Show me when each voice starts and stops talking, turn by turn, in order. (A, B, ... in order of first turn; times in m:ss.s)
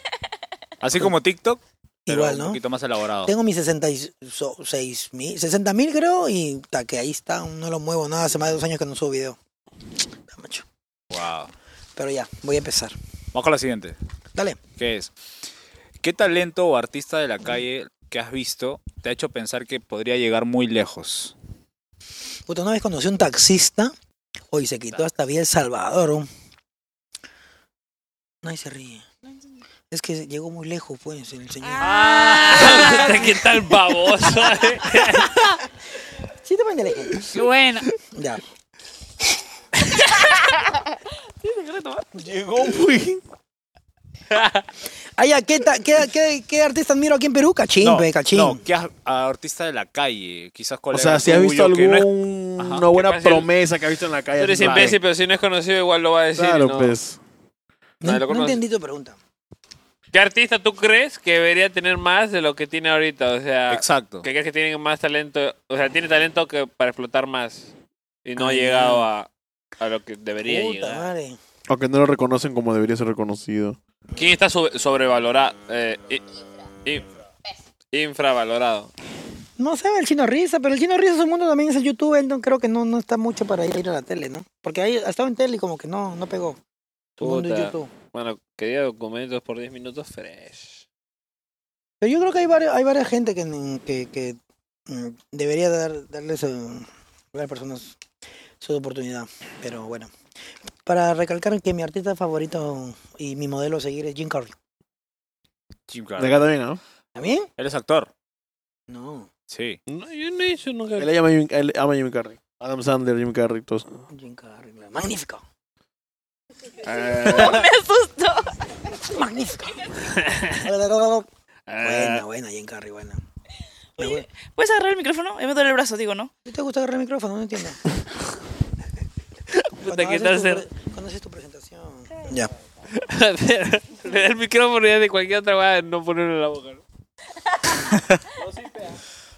0:00.8-0:03.3 A
0:02.1-0:02.6 B
0:03.3-0:09.4 B
0:10.3-0:10.6 B
0:11.1-0:11.5 A
0:12.0-0:13.0 B
0:13.3-0:14.0 A
0:14.8-0:15.1 A
0:16.0-0:21.3 A
0:22.5-0:23.9 B
0:24.5-0:26.3 B
0:28.4-0:29.1 B
0:29.9-0:31.9 B
0:31.6-0:33.3 C
0:31.8-0:33.3 A
0:32.2-0:35.5 D
0:36.4-0:37.4 B
0:37.3-0:37.9 A
0:38.0-0:38.4 B
0:40.3-0:40.8 C
0:41.4-0:42.1 C
0:42.3-0:43.2 E
0:44.4-0:44.6 D
0:45.2-0:48.6 B
0:47.8-0:52.9 A
0:50.9-0:55.0 E
0:53.0-0:53.5 D
0:54.4-0:57.0 D
0:54.6-0:55.0 A
0:56.4-0:57.2 E
0:58.0-0:59.2 B
0:58.0-0:58.6 D
1:00.1-1:07.7 D
1:03.7-1:04.3 A
1:08.2-1:09.3 D
1:08.4-1:09.1 B
1:09.8-1:11.1 D
1:10.5-1:11.4 B
1:11.7-1:13.8 E
1:14.2-1:16.2 D
1:17.9-1:18.9 D
1:19.6-1:26.6 B
1:27.2-1:30.8 D
1:27.2-1:27.9 B
1:32.0-1:34.4 B
1:34.9-1:38.0 B
1:38.6-1:40.1 B
1:40.9-1:44.6 B
1:45.9-1:46.4 A
1:46.2-1:46.8 E
1:47.2-1:47.5 B
1:47.6-1:48.1 A
1:48.9-1:49.3 B
1:49.5-1:49.8 A
1:49.9-1:51.1 D
1:51.0-1:54.0 E
1:54.1-1:55.4 B
1:56.8-1:57.7 D
1:57.3-1:58.5 C
1:59.0-2:00.0 B
2:00.3-2:00.5 D
2:00.5-2:01.3 B
2:01.7-2:02.2 D
2:01.8-2:03.2 B
2:04.0-2:04.3 B
2:04.0-2:06.3 C
2:06.4-2:07.8 B
2:09.8-2:10.6 D
2:09.9-2:12.5 B
2:12.9-2:16.8 D
2:17.9-2:18.2 A